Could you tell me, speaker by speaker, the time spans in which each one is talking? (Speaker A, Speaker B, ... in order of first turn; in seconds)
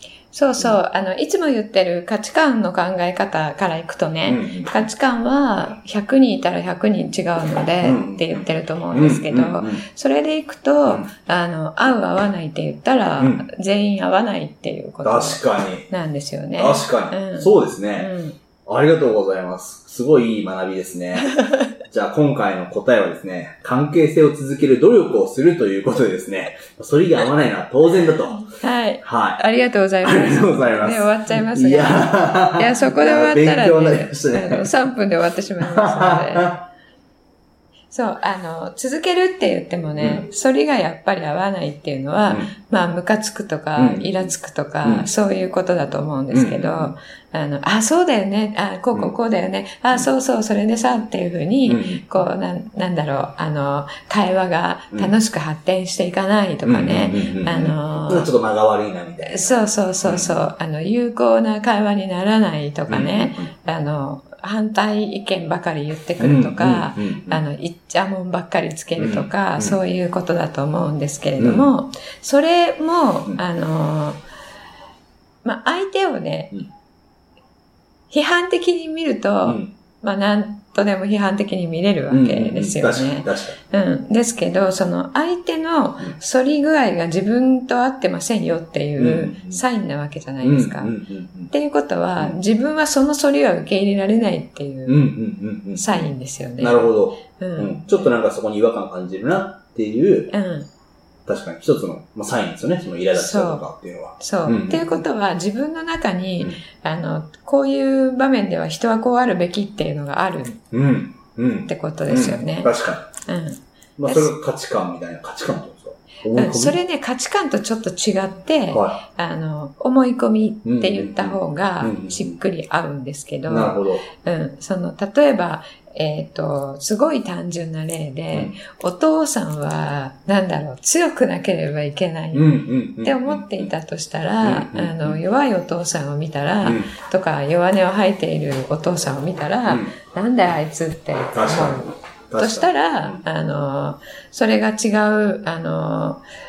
Speaker A: 0.3-18.4, 21.3-21.7, 28.4-36.5, 37.9-58.3, 59.3-74.2, 75.4-76.6, 78.1-90.9, 91.5-95.1, 95.8-98.1, 100.3-100.7, 103.1-103.7, 104.2-110.7, 111.7-112.7, 113.3-114.3, 116.3-146.2
Speaker B: 4.3-4.8, 7.8-9.8, 13.2-13.4, 15.0-15.9, 16.6-18.1, 18.6-28.5, 29.0-29.4, 30.0-34.7, 35.6-36.7, 40.0-40.2, 43.8-44.3, 46.3-46.9, 51.7-52.0, 56.6-60.4, 62.9-63.5, 66.2-67.4, 69.0-69.8, 71.4-71.7, 79.4-79.7, 82.1-83.6, 89.0-89.7, 90.4-91.5, 94.9-100.3, 101.3-105.0, 110.7-113.1, 114.0-116.8, 118.7-119.0, 120.7-122.4, 123.5-124.1, 132.3-133.7, 134.4-135.2, 136.6-136.9, 139.7-139.9, 141.3-143.2